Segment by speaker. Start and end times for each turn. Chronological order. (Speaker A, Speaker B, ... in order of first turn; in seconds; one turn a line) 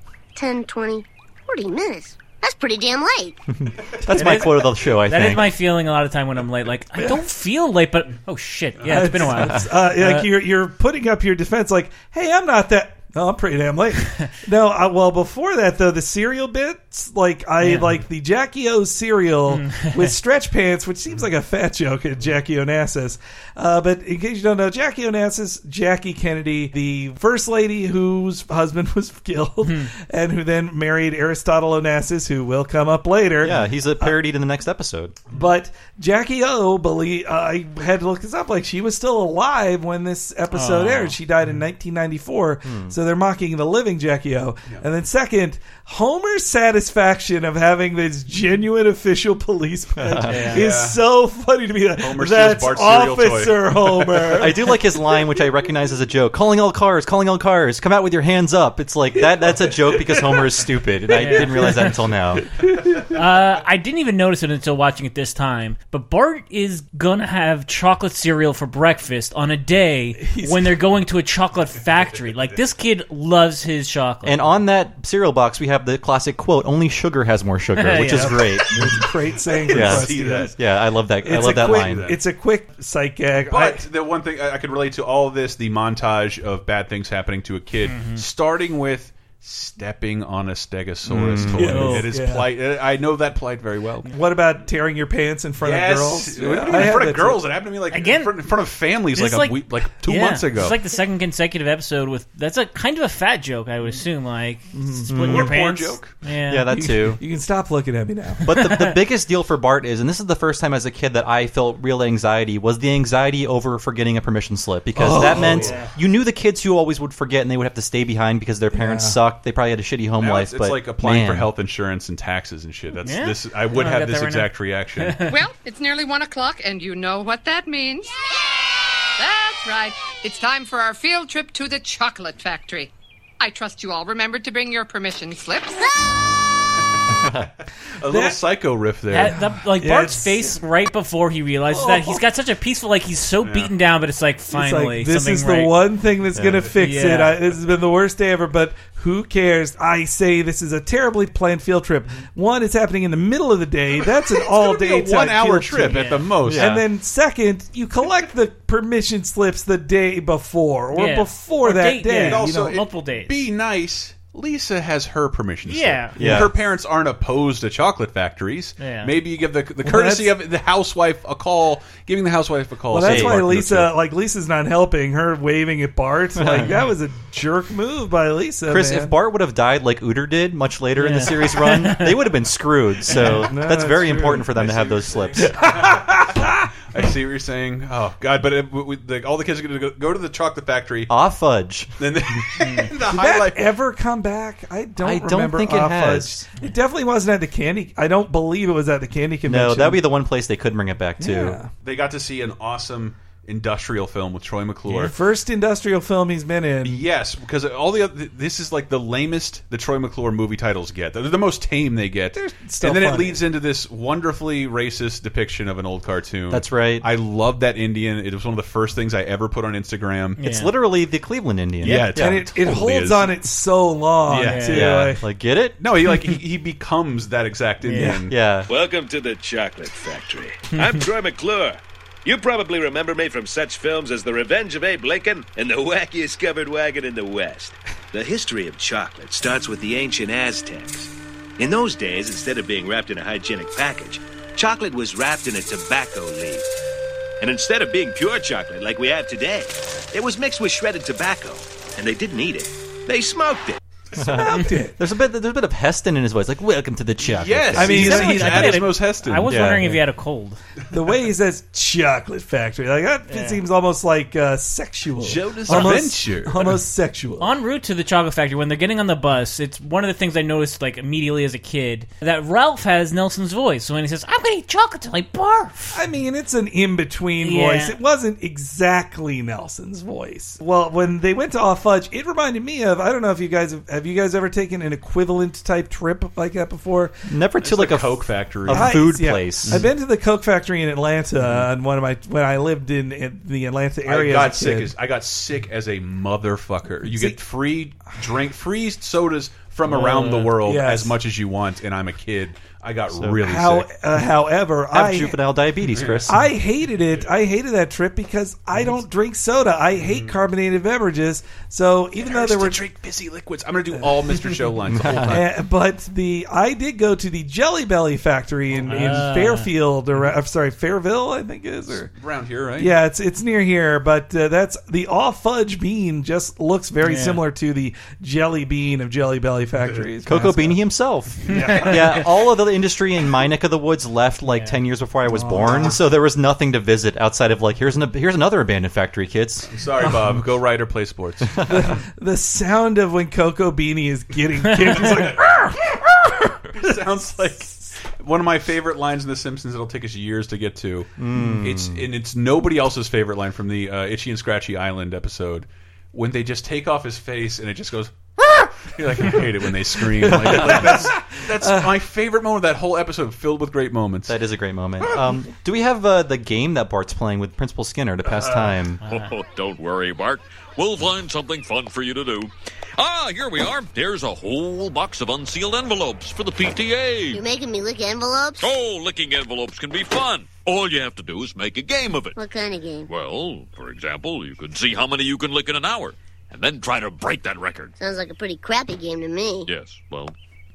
Speaker A: 0.3-3.4
Speaker B: 3.7-5.5
Speaker C: 4.1-10.3
Speaker D: 8.8-34.1
Speaker C: 17.6-18.0
Speaker C: 19.5-20.1
Speaker C: 29.6-29.9
Speaker B: 33.4-35.1
Speaker D: 35.3-54.7
Speaker C: 40.5-41.1
Speaker B: 42.6-42.9
Speaker B: 50.0-50.5
Speaker C: 50.3-50.6
Speaker E: 50.5-51.0
Speaker E: 52.0-54.1
Speaker B: 54.2-62.5
Speaker D: 59.2-60.6
Speaker C: 61.1-62.0
Speaker D: 61.2-61.8
Speaker D: 62.6-63.1
Speaker C: 63.1-74.4
Speaker D: 70.2-70.8
Speaker B: 74.2-79.0
Speaker C: 77.7-78.5
Speaker D: 78.0-80.5
Speaker E: 79.5-80.5
Speaker B: 79.7-82.1
Speaker D: 81.2-83.8
Speaker E: 81.3-82.2
Speaker E: 83.5-94.1
Speaker C: 87.8-88.2
Speaker B: 91.0-91.9
Speaker D: 91.5-92.5
Speaker C: 91.6-92.0
Speaker D: 94.1-97.4
Speaker E: 95.6-100.8
Speaker C: 97.9-98.3
Speaker C: 99.1-106.7
Speaker D: 104.7-105.4
Speaker B: 105.1-105.5
Speaker E: 105.2-106.1
Speaker B: 106.5-107.2
Speaker D: 106.7-108.5
Speaker B: 108.4-121.5
Speaker C: 108.5-108.9
Speaker D: 114.9-115.8
Speaker D: 118.7-119.2
Speaker E: 120.2-125.2
Speaker C: 123.0-125.4
Speaker F: 125.3-128.2
Speaker F: 129.2-135.8
Speaker E: 138.0-139.4
Speaker D: 138.1-138.4
Speaker C: 139.1-145.7
Speaker D: 139.2-140.6
Speaker D: 141.7-142.2
Speaker E: 143.4-143.7
Speaker D: 144.5-162.8
Speaker B: 146.3-146.7
Speaker C: 146.8-147.4
Speaker E: 154.3-156.8
Speaker C: 155.9-156.3
Speaker B: 156.4-156.8
Speaker C: 160.9-163.3
Speaker E: 162.2-173.9
Speaker C: 165.7-166.2
Speaker B: 166.2-166.5
Speaker C: 168.8-169.1
Speaker D: 169.8-170.3
Speaker D: 172.9-179.1
Speaker B: 173.0-173.4
Speaker B: 176.3-176.8
Speaker B: 178.7-185.7
Speaker C: 181.0-182.2
Speaker D: 183.1-184.5
Speaker E: 184.5-186.4
Speaker D: 185.4-186.7
Speaker E: 186.9-191.1
Speaker B: 191.1-192.4
Speaker E: 192.0-193.7
Speaker C: 192.6-192.9
Speaker D: 193.0-200.0
Speaker B: 195.0-196.5
Speaker B: 199.4-201.6
Speaker D: 201.2-201.7
Speaker E: 201.8-205.1
Speaker D: 204.9-207.0
Speaker E: 206.8-220.4
Speaker D: 212.3-213.4
Speaker B: 216.5-217.1
Speaker C: 220.4-220.7
Speaker B: 220.4-222.4
Speaker E: 221.8-223.3
Speaker D: 222.1-225.2
Speaker E: 224.3-225.0
Speaker C: 224.4-224.8
Speaker B: 224.7-225.8
Speaker E: 225.8-228.3
Speaker C: 227.8-228.2
Speaker B: 228.2-228.7
Speaker G: 228.7-246.7
Speaker C: 230.7-231.0
Speaker G: 247.4-253.8
Speaker D: 254.2-254.9
Speaker B: 254.2-258.8
Speaker E: 257.2-259.5
Speaker D: 257.8-258.7
Speaker C: 257.9-260.6
Speaker B: 259.4-260.0
Speaker D: 260.9-267.5
Speaker C: 263.3-263.6
Speaker E: 265.2-266.8
Speaker C: 267.4-276.0
Speaker D: 275.9-287.1
Speaker C: 277.4-277.9
Speaker B: 287.3-289.8
Speaker E: 287.6-289.9
Speaker D: 288.7-294.9
Speaker E: 294.0-303.9
Speaker D: 297.0-297.4
Speaker C: 299.9-300.5
Speaker D: 300.6-301.1
Speaker D: 303.4-305.4
Speaker B: 304.9-306.4
Speaker E: 305.9-306.3
Speaker D: 306.3-312.8
Speaker E: 310.0-310.4
Speaker E: 312.2-315.5
Speaker B: 314.9-315.4
Speaker D: 315.3-322.1
Speaker C: 318.9-319.7
Speaker E: 321.9-323.0
Speaker D: 322.8-330.8
Speaker C: 327.0-327.4
Speaker E: 329.8-330.1
Speaker B: 330.2-339.7
Speaker C: 331.5-331.9
Speaker D: 331.5-332.2
Speaker C: 334.5-334.8
Speaker D: 335.3-335.9
Speaker E: 339.7-341.8
Speaker D: 341.7-347.3
Speaker E: 344.9-345.4
Speaker E: 346.7-364.4
Speaker B: 351.2-352.0
Speaker D: 360.2-361.9
Speaker B: 360.4-361.1
Speaker B: 364.3-369.0
Speaker C: 369.0-369.3
Speaker H: 369.0-377.4
Speaker A: 377.3-378.6
Speaker H: 378.6-382.4
Speaker A: 382.3-383.1
Speaker H: 383.1-387.9
Speaker A: 388.0-389.7
Speaker H: 389.7-390.3